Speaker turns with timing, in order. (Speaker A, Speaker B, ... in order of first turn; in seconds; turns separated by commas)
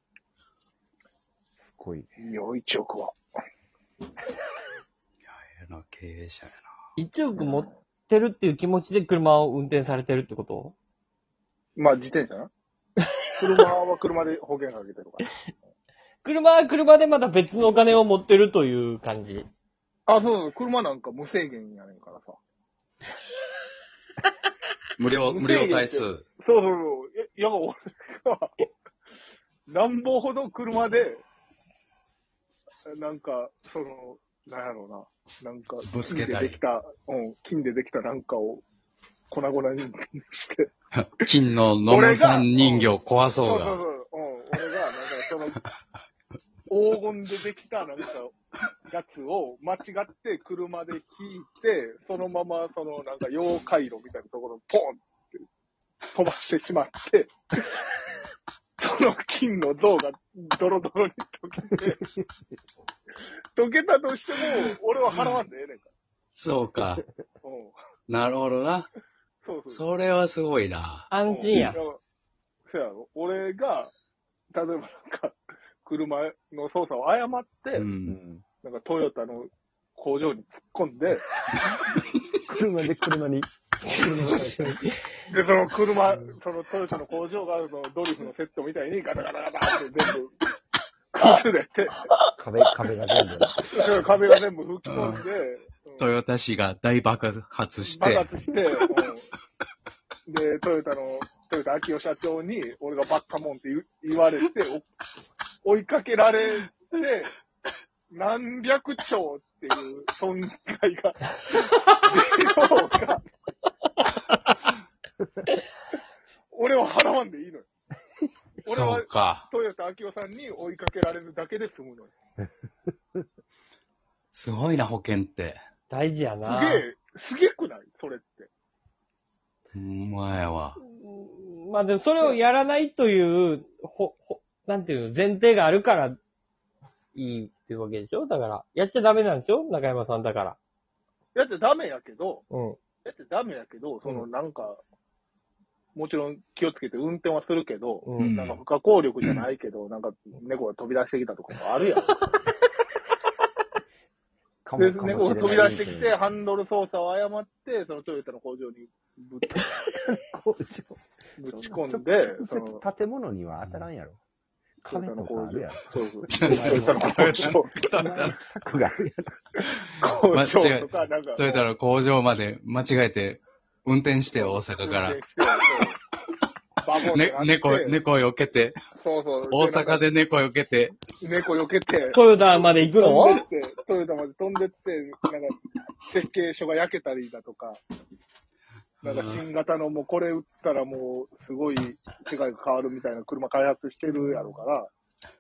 Speaker A: 1.6-2.1, Speaker B: 2.2-3.1, Speaker C: 5.2-6.7, Speaker D: 7.0-10.8, Speaker B: 7.3-7.7, Speaker B: 11.8-12.5, Speaker B: 13.4-15.3, Speaker D: 16.2-19.5, Speaker B: 20.1-22.4, Speaker C: 25.0-26.2, Speaker B: 25.3-28.6, Speaker B: 29.7-31.2, Speaker B: 32.9-38.6, Speaker C: 35.9-36.6, Speaker B: 39.3-40.7, Speaker C: 41.0-43.8, Speaker B: 41.9-45.6, Speaker B: 46.7-48.3, Speaker B: 48.9-55.4, Speaker B: 56.1-57.8, Speaker B: 58.8-62.0, Speaker B: 63.6-65.9, Speaker C: 66.4-67.0, Speaker B: 67.4-67.8, Speaker C: 68.1-68.9, Speaker B: 69.4-69.8, Speaker C: 69.7-71.6, Speaker D: 71.1-71.8, Speaker B: 71.3-72.0, Speaker B: 72.7-73.9, Speaker B: 74.5-77.9, Speaker C: 77.7-78.2, Speaker A: 78.0-78.5, Speaker B: 78.6-81.3, Speaker A: 82.5-84.8, Speaker D: 83.9-85.0, Speaker B: 85.3-90.3, Speaker B: 91.1-92.1, Speaker A: 92.4-94.0, Speaker B: 93.8-96.1, Speaker C: 94.9-95.2, Speaker C: 96.0-98.3, Speaker B: 97.8-99.3, Speaker B: 100.3-104.9, Speaker B: 105.6-107.3, Speaker B: 108.1-113.2, Speaker B: 116.5-117.7, Speaker B: 118.7-122.1, Speaker C: 118.7-119.5, Speaker C: 124.3-125.6, Speaker D: 125.9-126.8, Speaker B: 126.4-128.5, Speaker C: 129.7-130.8, Speaker D: 130.8-136.2, Speaker D: 137.2-140.6, Speaker B: 141.3-142.4, Speaker D: 142.5-142.8, Speaker B: 143.1-144.8, Speaker B: 145.9-152.2, Speaker D: 148.0-148.3, Speaker C: 148.2-148.6, Speaker A: 154.7-156.2, Speaker B: 154.8-159.7, Speaker A: 159.5-164.2, Speaker B: 161.4-162.8, Speaker A: 164.8-169.4, Speaker B: 164.9-167.7, Speaker C: 166.4-168.4, Speaker B: 169.7-171.7, Speaker C: 170.0-175.2, Speaker B: 174.3-176.0, Speaker B: 176.8-178.0, Speaker C: 177.1-178.8, Speaker B: 179.0-180.1, Speaker C: 179.5-181.0, Speaker B: 181.2-187.8, Speaker D: 182.1-183.4, Speaker C: 189.0-189.4, Speaker B: 189.0-194.9